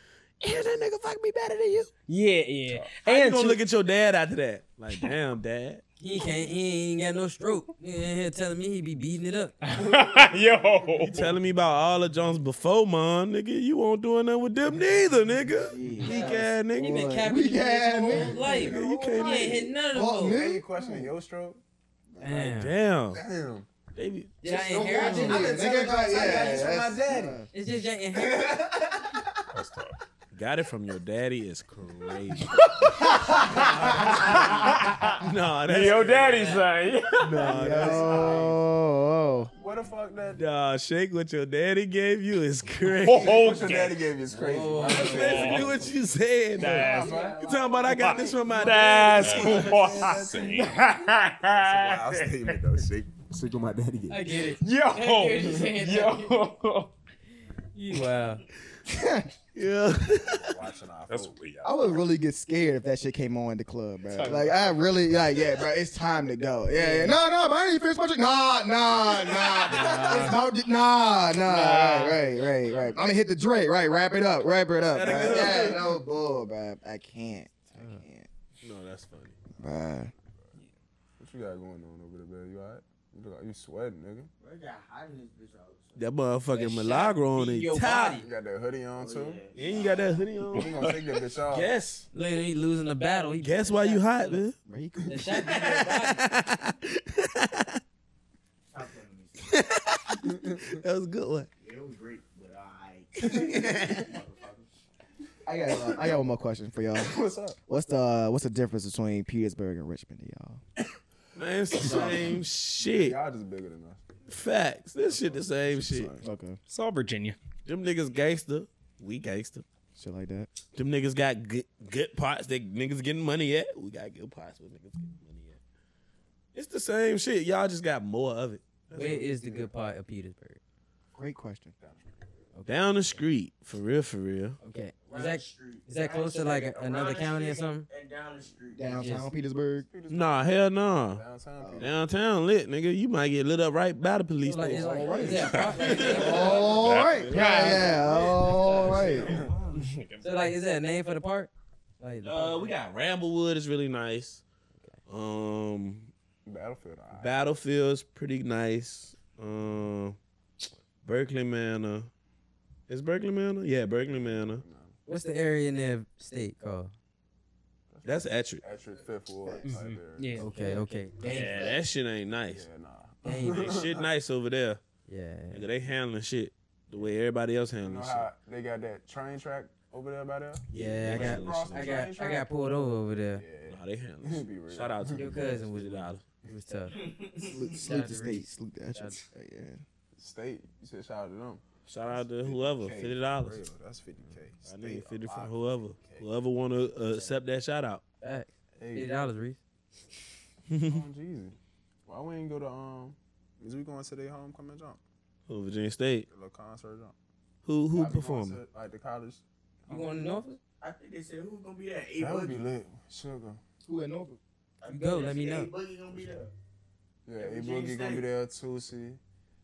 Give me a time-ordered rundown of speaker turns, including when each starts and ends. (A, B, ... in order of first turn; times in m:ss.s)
0:00.4-0:01.9 A
0:02.1-0:03.6 B
0:03.0-0:05.8 A
0:06.0-0:09.6 C
0:09.6-0:11.3 B
0:09.8-0:11.3 D
0:11.1-0:17.0 A
0:15.5-0:16.4 E
0:15.8-0:21.1 F
0:16.0-0:20.4 C
0:18.4-0:19.7 A
0:20.2-0:21.6 D
0:22.2-0:22.7 C
0:22.2-0:23.2 A
0:23.1-0:23.7 D
0:24.0-0:25.4 A
0:24.4-0:25.6 C
0:24.4-0:27.5 F
0:25.0-0:27.4 D
0:27.5-0:28.7 C
0:28.2-0:28.9 D
0:29.5-0:30.0 G
0:30.3-0:36.6 A
0:32.9-0:34.6 F
0:34.1-0:37.6 B
0:36.2-0:36.6 C
0:37.2-0:38.3 A
0:37.2-0:39.5 F
0:37.6-0:38.6 D
0:39.5-0:40.4 D
0:40.4-0:43.4 A
0:43.0-0:44.0 B
0:43.1-0:45.9 D
0:44.3-0:45.8 C
0:44.9-0:49.4 A
0:45.0-0:45.7 B
0:46.6-0:47.3 B
0:46.6-0:50.5 D
0:47.0-0:47.8 E
0:47.9-0:52.6 B
0:49.1-0:50.8 G
0:51.5-0:54.4 D
0:54.1-0:56.4 C
0:54.5-0:56.9 B
0:57.7-0:58.4 C
0:58.9-0:59.3 F
0:59.6-1:00.4 A
1:00.2-1:01.3 D
1:01.1-1:02.0 G
1:01.6-1:18.3 F
1:04.1-1:04.9 B
1:06.7-1:07.2 C
1:09.6-1:10.4 C
1:10.0-1:10.2 B
1:11.4-1:12.3 B
1:14.9-1:15.9 A
1:18.6-1:19.4 A
1:19.6-1:20.1 F
1:21.2-1:24.3 D
1:24.4-1:26.0 E
1:26.0-1:28.2 A
1:26.5-1:28.3 C
1:28.2-1:29.4 D
1:29.0-1:30.3 E
1:29.6-1:30.9 A
1:30.5-1:31.7 D
1:31.5-1:32.1 A
1:32.1-1:34.4 C
1:33.4-1:34.6 A
1:34.6-1:35.6 F
1:35.1-1:36.2 C
1:35.6-1:37.8 A
1:38.7-1:39.6 E
1:39.4-1:41.5 A
1:40.3-1:40.7 D
1:41.6-1:44.7 E
1:43.2-1:44.0 A
1:45.5-1:50.6 F
1:45.8-1:46.2 D
1:47.0-1:47.6 D
1:51.4-1:53.2 A
1:51.8-1:54.0 D
1:51.8-1:52.2 F
1:54.3-1:56.2 A
1:55.1-1:56.3 D
1:56.2-1:56.6 F
1:56.7-1:57.4 B
1:57.7-1:59.6 A
2:00.0-2:00.5 F
2:00.8-2:05.6 A
2:06.5-2:09.6 A
2:09.0-2:10.6 C
2:11.1-2:11.7 F
2:11.8-2:12.1 D
2:12.5-2:12.9 C
2:12.7-2:14.6 A
2:14.6-2:17.9 C
2:15.1-2:19.0 E
2:18.8-2:19.9 F
2:18.9-2:19.2 C
2:19.9-2:21.9 D
2:20.1-2:21.2 A
2:21.6-2:21.9 F
2:21.8-2:29.4 A
2:24.4-2:26.8 C
2:24.6-2:29.4 F
2:26.7-2:27.3 G
2:27.3-2:28.2 B
2:28.4-2:29.6 C
2:29.7-2:30.3 B
2:30.2-2:32.7 C
2:32.2-2:34.4 A
2:35.1-2:36.1 A
2:36.4-2:37.4 D
2:37.1-2:40.2 A
2:41.0-2:42.1 A
2:42.9-2:44.6 A
2:44.5-2:45.0 D
2:45.1-2:46.9 C
2:47.9-2:50.5 D
2:48.0-2:48.6 A
2:49.5-2:49.8 F
2:49.6-2:50.8 B
2:50.4-2:51.8 C
2:50.4-2:50.6 F
2:51.2-2:52.7 A
2:52.5-2:54.1 D
2:53.2-2:53.7 C
2:53.4-2:54.8 A
2:55.1-2:55.7 C
2:55.5-2:58.3 A
2:57.8-3:02.5 D
3:00.7-3:02.0 A
3:00.7-3:03.4 C
3:03.4-3:05.3 D
3:03.7-3:06.2 A
3:05.1-3:09.2 C
3:07.0-3:07.6 E
3:07.4-3:09.8 F
3:10.2-3:16.3 D
3:11.9-3:13.6 A
3:14.6-3:18.0 A
3:18.2-3:19.6 C
3:18.8-3:19.2 D
3:20.7-3:21.0 A
3:20.8-3:25.0 D
3:25.5-3:26.3 A
3:26.3-3:27.1 D
3:27.6-3:28.6 A
3:27.9-3:30.1 D
3:29.9-3:30.6 C
3:30.8-3:32.6 E
3:32.2-3:33.6 D
3:33.8-3:34.4 F
3:34.8-3:36.5 E
3:34.9-3:35.7 C
3:37.3-3:39.2 D
3:37.4-3:38.3 E